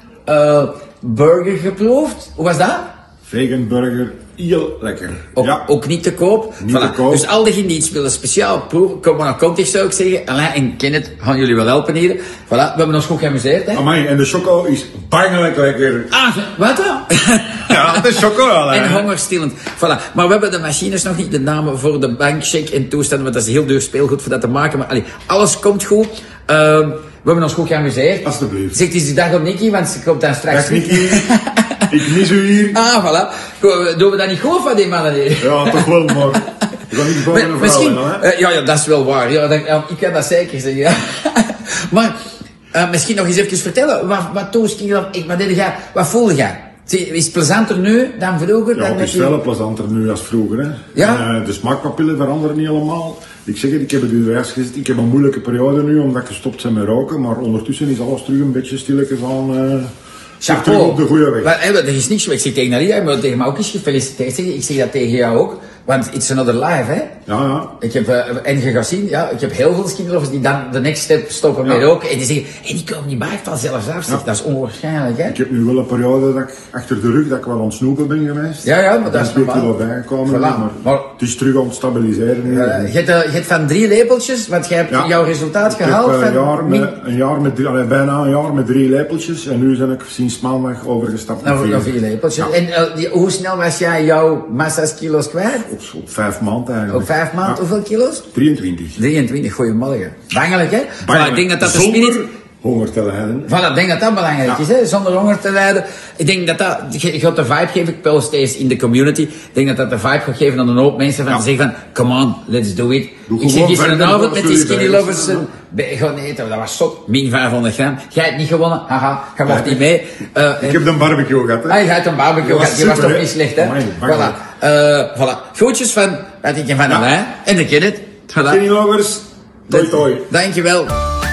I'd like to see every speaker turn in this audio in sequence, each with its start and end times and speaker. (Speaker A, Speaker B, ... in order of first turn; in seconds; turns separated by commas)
Speaker A: 0.3-2.9, Speaker B: 3.3-5.6, Speaker A: 5.4-13.8, Speaker B: 6.6-7.3, Speaker B: 13.7-16.1, Speaker A: 16.1-31.9, Speaker B: 17.7-19.1, Speaker B: 28.2-28.8, Speaker B: 30.5-31.3, Speaker B: 31.9-32.8, Speaker A: 32.7-36.5, Speaker B: 35.4-38.2, Speaker A: 37.2-42.2, Speaker A: 42.7-49.3, Speaker B: 48.7-59.9, Speaker A: 50.9-51.3, Speaker A: 60.4-67.1, Speaker B: 60.4-61.5, Speaker B: 67.3-67.7, Speaker A: 67.8-75.4, Speaker B: 75.3-82.9, Speaker A: 78.6-79.7, Speaker A: 80.3-81.1, Speaker A: 82.5-86.9, Speaker B: 85.7-92.5, Speaker A: 91.4-95.7, Speaker B: 95.7-97.6, Speaker A: 96.9-98.2, Speaker B: 98.3-99.0, Speaker A: 99.0-102.2, Speaker B: 101.0-103.5, Speaker A: 103.5-120.8, Speaker B: 113.3-115.5, Speaker B: 119.5-119.8, Speaker B: 120.6-121.8, Speaker A: 121.7-128.6, Speaker B: 122.4-124.4, Speaker B: 128.4-130.3, Speaker A: 129.7-130.9